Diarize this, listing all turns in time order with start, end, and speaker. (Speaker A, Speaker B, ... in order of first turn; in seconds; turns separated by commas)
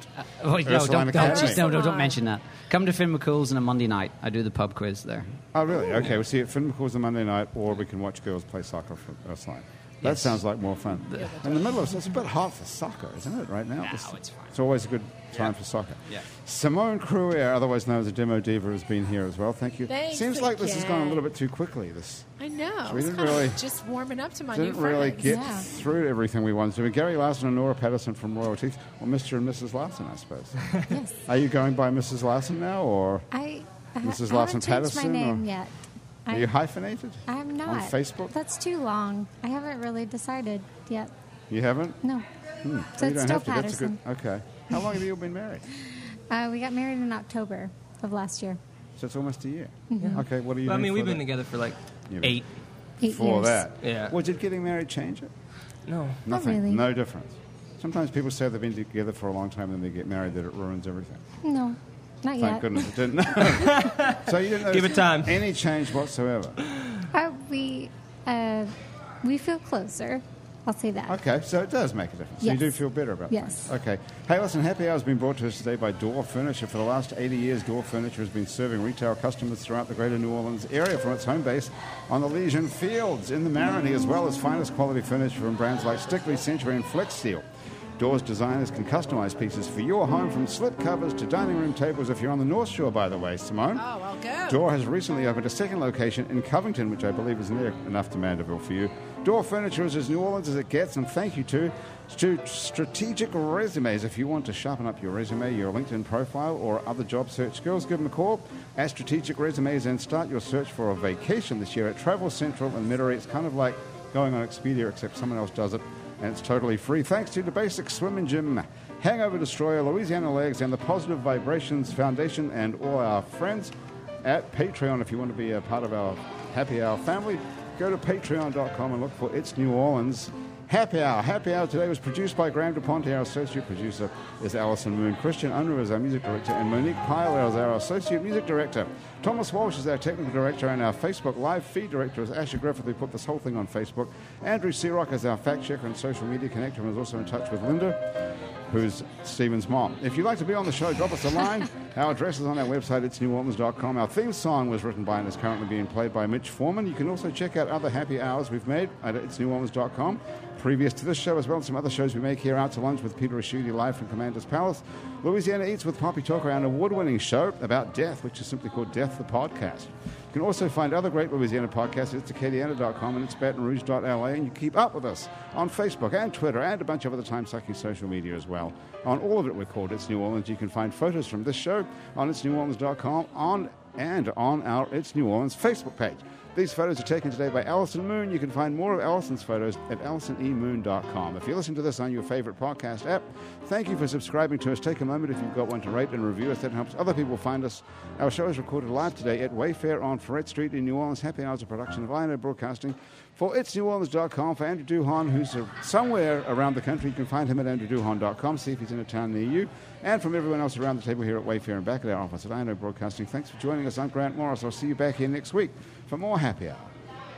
Speaker A: 0.2-5.3, Speaker B: 0.6-1.6, Speaker C: 1.1-2.2, Speaker B: 5.5-22.3, Speaker A: 10.0-10.4, Speaker A: 11.0-11.8, Speaker C: 11.3-11.6, Speaker A: 13.8-14.6, Speaker C: 19.9-21.2, Speaker C: 22.4-25.4, Speaker B: 22.9-23.6, Speaker B: 24.5-30.7, Speaker D: 25.2-25.7, Speaker D: 30.9-31.1, Speaker B: 31.2-33.3, Speaker D: 33.3-35.7, Speaker B: 34.0-35.4, Speaker D: 36.2-36.5, Speaker B: 36.3-38.3, Speaker D: 37.2-41.1, Speaker B: 41.5-42.0, Speaker B: 42.6-45.6, Speaker D: 43.0-44.0, Speaker D: 46.3-48.6, Speaker B: 49.0-51.2, Speaker D: 49.9-50.2, Speaker E: 50.0-52.5, Speaker B: 52.1-52.4, Speaker D: 53.0-53.6, Speaker B: 53.0-55.3, Speaker E: 53.8-54.1, Speaker E: 55.9-56.2, Speaker B: 56.2-61.2, Speaker D: 56.3-56.8, Speaker D: 61.4-63.0, Speaker B: 62.4-66.6, Speaker E: 63.5-65.4, Speaker D: 67.1-71.2, Speaker B: 71.1-87.5, Speaker D: 72.4-72.7, Speaker D: 73.3-73.7, Speaker B: 88.0-93.8, Speaker C: 93.8-94.6, Speaker B: 94.5-148.1, Speaker B: 148.7-216.9